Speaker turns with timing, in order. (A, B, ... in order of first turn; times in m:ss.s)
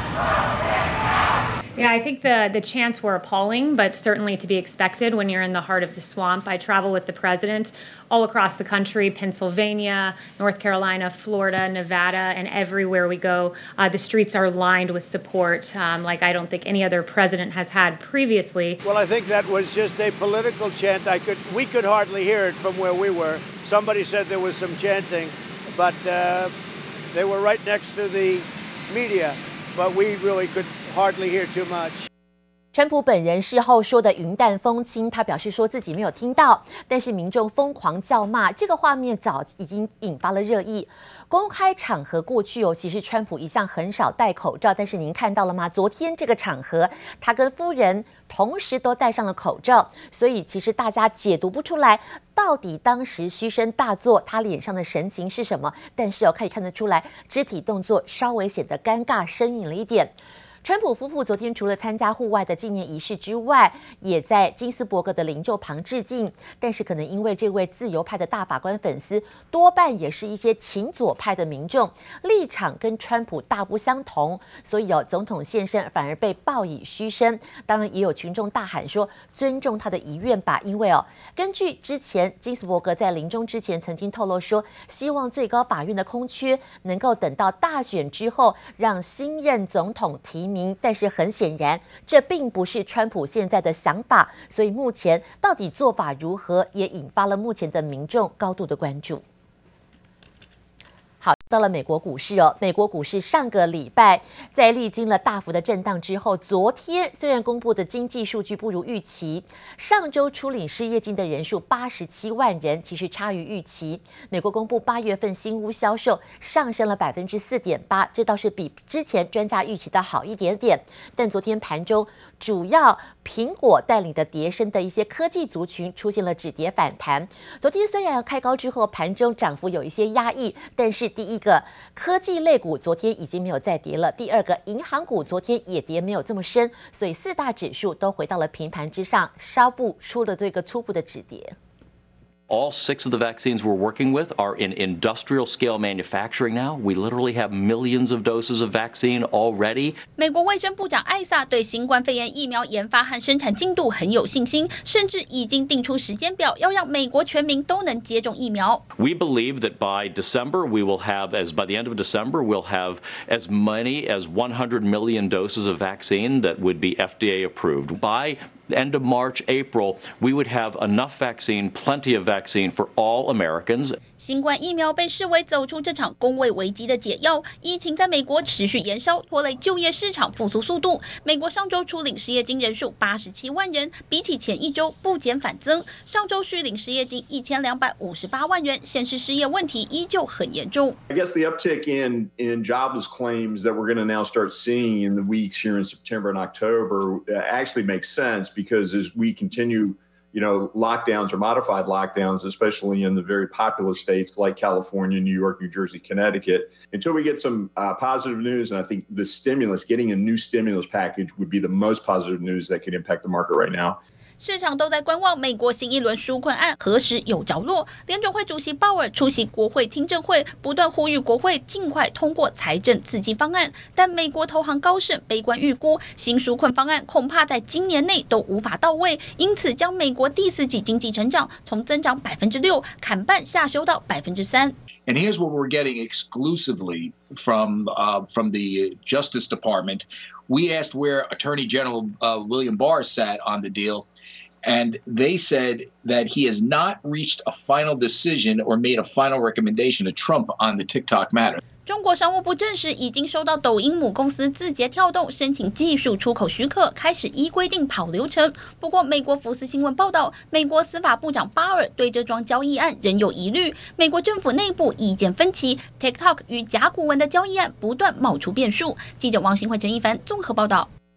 0:01.8-0:18.8 A
0:18.8-0:26.5 B
0:27.1-0:32.1 B
0:32.7-1:39.2 C
1:41.2-2:21.5 C
2:22.5-2:30.0 D
2:30.2-2:38.8 E
2:38.9-2:54.0 D
2:54.2-3:11.0 E
3:11.1-3:34.0 F
3:34.4-3:54.7 E
3:55.1-4:04.0 G
4:04.6-4:11.6 G
4:11.8-4:30.9 E